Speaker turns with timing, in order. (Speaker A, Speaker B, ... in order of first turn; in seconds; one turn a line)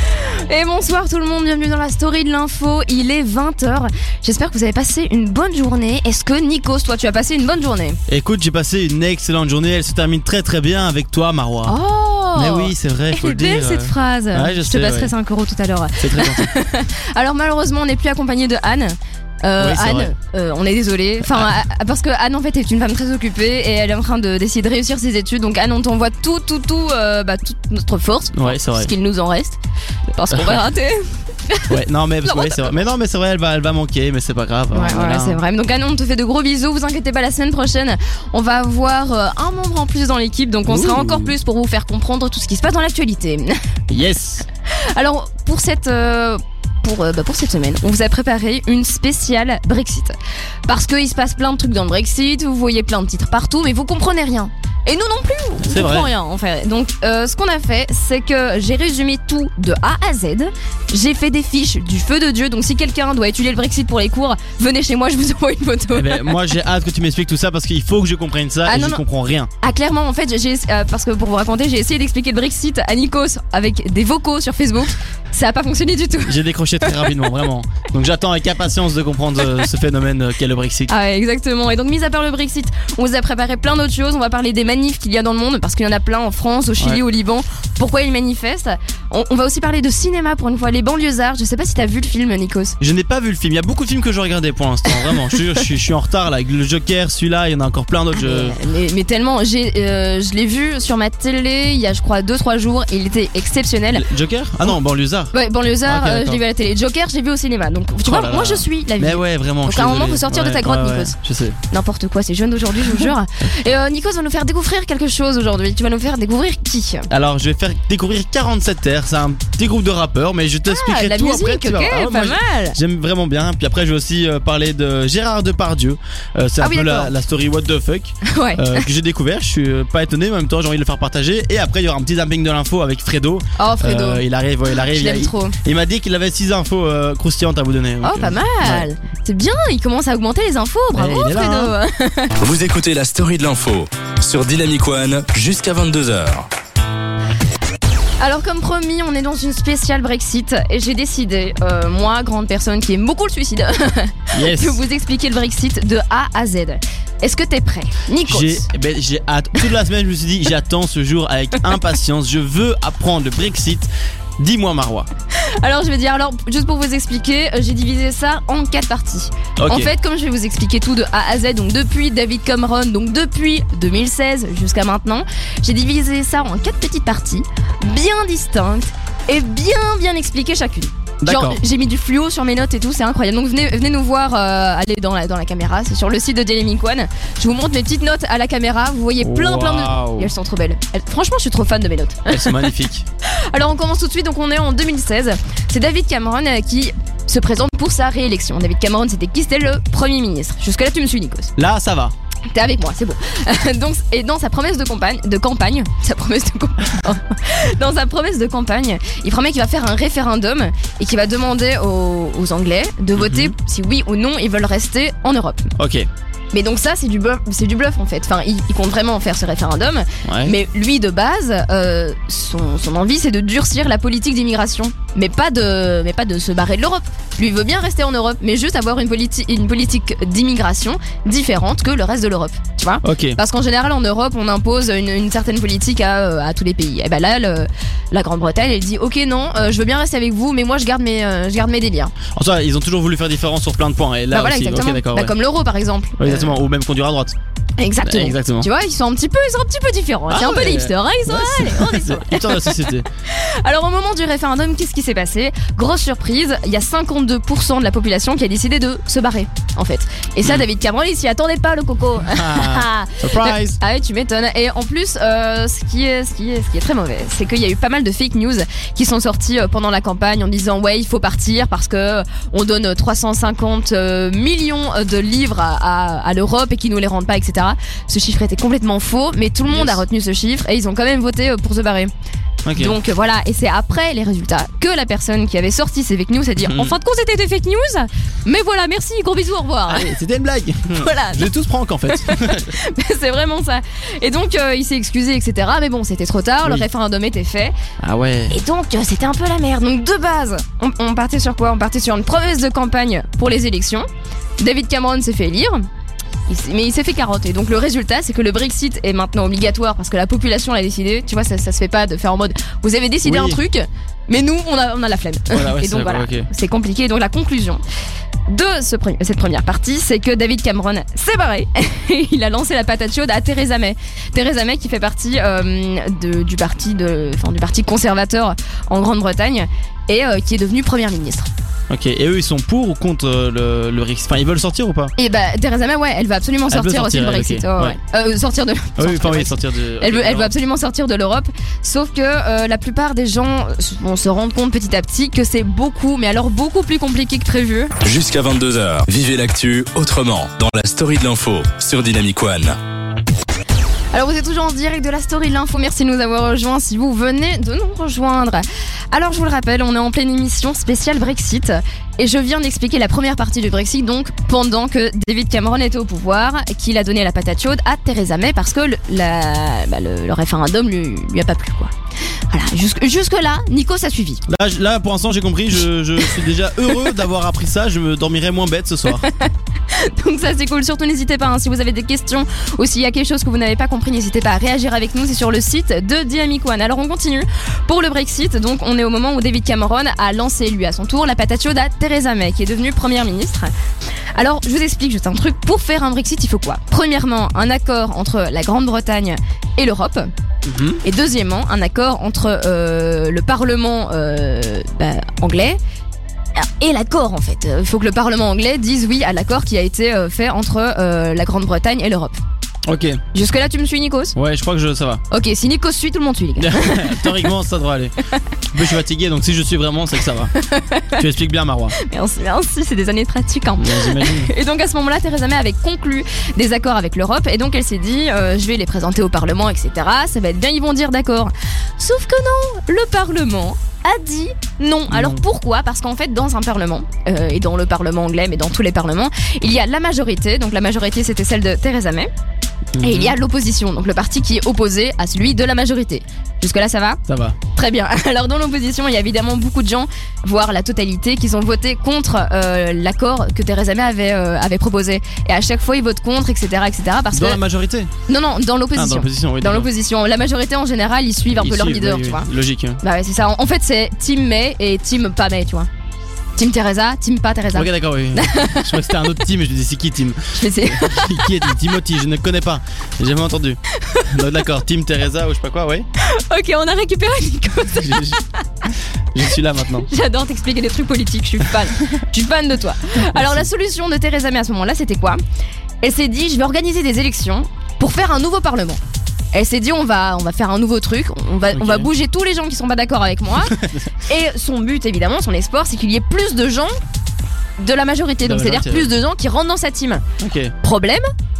Speaker A: 0.2-8.0
Speaker B: 8.1-11.8
Speaker A: 11.7-29.6
Speaker B: 12.3-15.1
Speaker B: 16.0-16.5
Speaker B: 19.6-20.1
Speaker B: 21.2-21.5
Speaker B: 28.3-28.9
Speaker A: 30.1-32.8
Speaker B: 30.3-30.6
Speaker B: 31.7-35.4
Speaker A: 34.7-43.6
Speaker B: 40.6-41.3
Speaker B: 43.9-44.5
Speaker A: 44.7-50.1
Speaker A: 50.7-66.5
Speaker B: 55.6-56.1
Speaker B: 65.9-69.5
Speaker A: 68.7-69.0
Speaker A: 69.6-77.3
Speaker B: 76.2-80.9
Speaker A: 80.9-92.8
Speaker B: 92.8-98.6
Speaker A: 98.2-104.0
Speaker B: 103.9-105.3
Speaker A: 105.3-111.2
Speaker B: 105.8-106.4
Speaker B: 108.0-111.6
Speaker A: 111.7-117.1
Speaker B: 117.1-138.9
Speaker A: 120.7-122.8
Speaker A: 126.6-127.1
Speaker A: 128.2-128.9
Speaker A: 133.6-135.6
Speaker A: 138.0-142.3
Speaker B: 140.9-141.7
Speaker C: 142.4-146.5
Speaker A: 148.2-158.7
Speaker B: 154.3-154.8
Speaker B: 158.2-165.1
Speaker A: 165.4-192.7
Speaker B: 169.6-169.9
Speaker B: 181.2-181.6
Speaker B: 189.2-190.3
Speaker B: 192.3-193.1
Speaker A: 193.2-201.5
Speaker B: 201.6-202.1
Speaker A: 202.5-215.7
Speaker B: 213.2-213.5
Speaker B: 215.8-216.1
Speaker A: 216.5-242.1
Speaker B: 220.2-220.5
Speaker B: 233.0-233.4
Speaker B: 242.3-245.3
Speaker A: 244.3-246.5
Speaker B: 246.2-247.3
Speaker A: 247.8-282.1
Speaker B: 248.0-248.7
Speaker B: 250.3-253.1
Speaker B: 262.2-263.8
Speaker B: 279.7-280.0
Speaker B: 282.6-282.9
Speaker A: 282.8-290.1
Speaker B: 286.6-286.9
Speaker B: 289.9-292.7
Speaker A: 290.9-291.5
Speaker A: 292.1-297.8
Speaker B: 298.0-298.6
Speaker A: 298.5-304.1
Speaker A: 304.6-305.9
Speaker A: 306.5-317.8
Speaker B: 313.2-313.6
Speaker B: 315.5-316.5
Speaker A: 318.5-331.5
Speaker B: 331.9-335.1
Speaker A: 335.2-347.9
Speaker B: 336.7-338.0
Speaker B: 339.0-340.5
Speaker C: 348.0-352.8
Speaker A: 354.1-371.9
Speaker A: 372.5-374.4
Speaker B: 374.5-379.2
Speaker A: 379.1-393.7
Speaker A: 394.3-400.3
Speaker B: 400.6-401.0
Speaker A: 401.0-405.8
Speaker A: 406.6-412.4
Speaker B: 412.9-413.2
Speaker A: 413.3-414.4
Speaker B: 414.3-415.2
Speaker A: 415.3-417.4
Speaker B: 416.6-418.1
Speaker B: 418.7-420.5
Speaker A: 420.6-421.2
Speaker B: 421.1-421.9
Speaker A: 421.9-442.3
Speaker B: 423.8-424.5
Speaker B: 435.1-435.4
Speaker B: 442.9-443.4
Speaker A: 443.0-457.6
Speaker B: 447.3-447.6
Speaker B: 457.3-458.1
Speaker A: 458.3-462.5
Speaker B: 458.9-459.9
Speaker B: 461.5-463.0
Speaker A: 463.0-465.9
Speaker A: 466.6-469.0
Speaker B: 467.7-476.1
Speaker A: 470.5-471.7
Speaker A: 473.9-474.3
Speaker A: 476.2-478.9
Speaker B: 477.9-478.4
Speaker B: 479.3-480.1
Speaker A: 480.1-485.4
Speaker B: 483.2-483.7
Speaker A: 486.0-489.0
Speaker A: 489.5-496.9
Speaker B: 491.7-492.1
Speaker B: 493.7-494.1
Speaker A: 497.8-500.2
Speaker B: 498.4-499.1
Speaker B: 500.4-500.7
Speaker A: 500.8-501.3